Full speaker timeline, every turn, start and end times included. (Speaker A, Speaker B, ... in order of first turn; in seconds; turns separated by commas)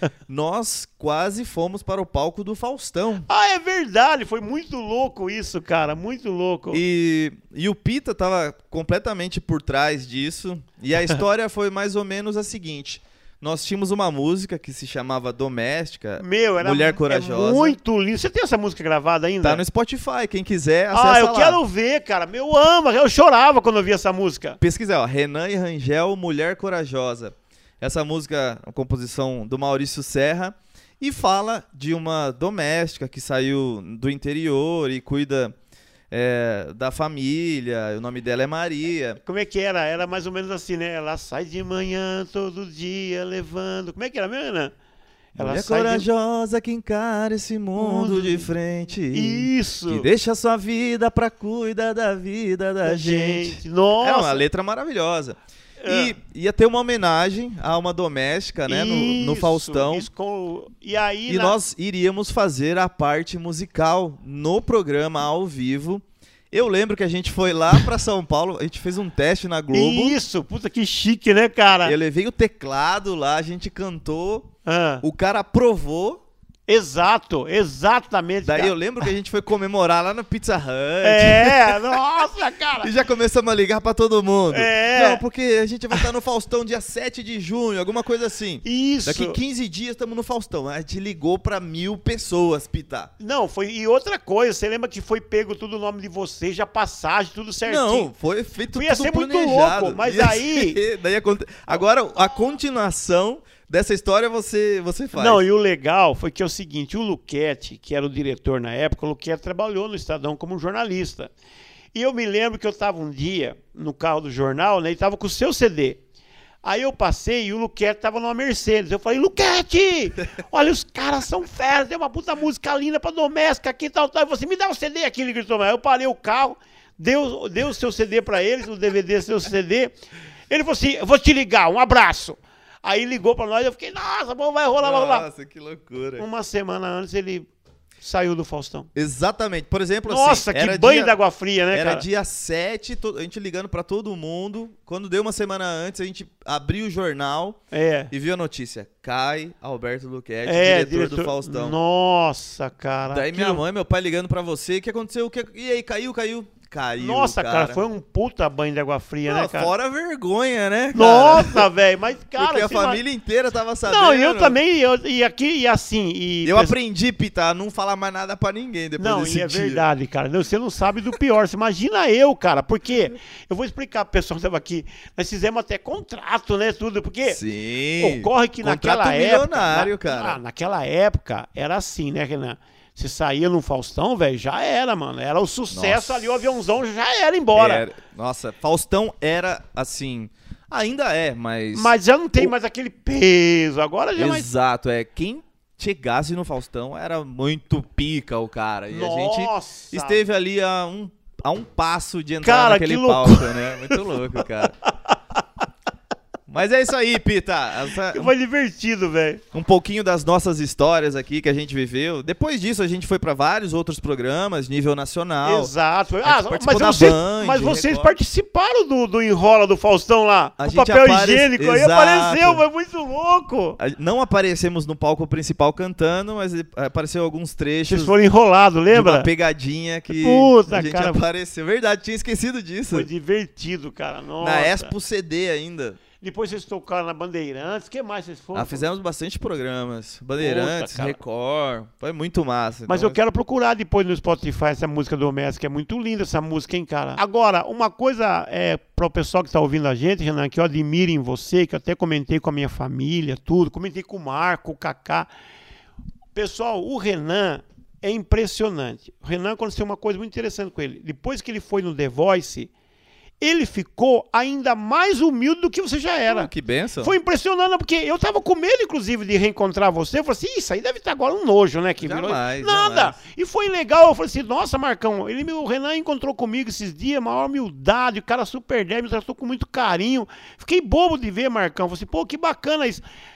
Speaker A: 0.3-3.2, Speaker B: 3.3-6.8, Speaker A: 6.7-17.8, Speaker B: 16.2-19.6, Speaker A: 19.4-21.6, Speaker B: 20.9-24.6, Speaker A: 24.6-35.5, Speaker A: 36.1-39.2, Speaker B: 39.2-44.7, Speaker B: 45.4-46.1, Speaker A: 45.4-60.1, Speaker B: 47.8-48.5, Speaker B: 49.1-50.1, Speaker B: 52.8-54.4, Speaker B: 55.8-56.1, Speaker B: 58.7-61.5, Speaker A: 61.3-70.2, Speaker B: 69.7-71.9, Speaker A: 71.8-74.5, Speaker B: 74.6-75.0, Speaker A: 75.0-76.2, Speaker B: 76.7-78.7, Speaker A: 78.4-82.0, Speaker B: 81.0-82.9, Speaker A: 82.8-93.1, Speaker B: 84.5-85.2, Speaker B: 88.6-89.4, Speaker B: 93.2-98.1, Speaker A: 97.7-105.4, Speaker B: 98.7-100.8, Speaker B: 105.1-111.3, Speaker B: 111.9-116.0, Speaker B: 116.6-129.9, Speaker B: 130.5-135.3, Speaker A: 134.8-136.2, Speaker B: 136.2-137.5, Speaker B: 138.0-138.9, Speaker A: 138.9-141.2, Speaker B: 140.1-142.0, Speaker A: 141.7-147.6, Speaker B: 147.7-148.1, Speaker A: 148.1-151.8, Speaker B: 150.4-153.6, Speaker A: 153.1-157.8, Speaker B: 157.0-159.7, Speaker A: 159.3-161.7, Speaker B: 160.9-163.0, Speaker A: 162.4-164.6, Speaker B: 163.8-166.8, Speaker A: 166.4-169.8, Speaker B: 169.0-177.4, Speaker A: 177.2-180.4, Speaker B: 178.0-187.8, Speaker A: 185.7-186.4, Speaker A: 187.5-192.5, Speaker B: 191.7-194.5, Speaker A: 194.2-204.7, Speaker B: 198.9-200.2, Speaker B: 202.4-204.0, Speaker A: 206.5-208.3, Speaker B: 208.1-209.4, Speaker A: 209.5-215.7, Speaker B: 215.4-223.8, Speaker A: 216.2-218.1, Speaker A: 220.6-222.6, Speaker A: 223.8-228.1, Speaker B: 227.9-229.3, Speaker A: 228.9-233.1, Speaker B: 230.1-231.2, Speaker B: 232.9-234.9, Speaker A: 234.4-236.0, Speaker B: 236.2-238.9, Speaker A: 238.5-243.2, Speaker B: 240.4-241.2, Speaker B: 242.9-255.3, Speaker B: 256.3-262.7, Speaker B: 263.4-266.5, Speaker A: 266.3-267.1, Speaker B: 267.0-283.0, Speaker A: 272.0-273.2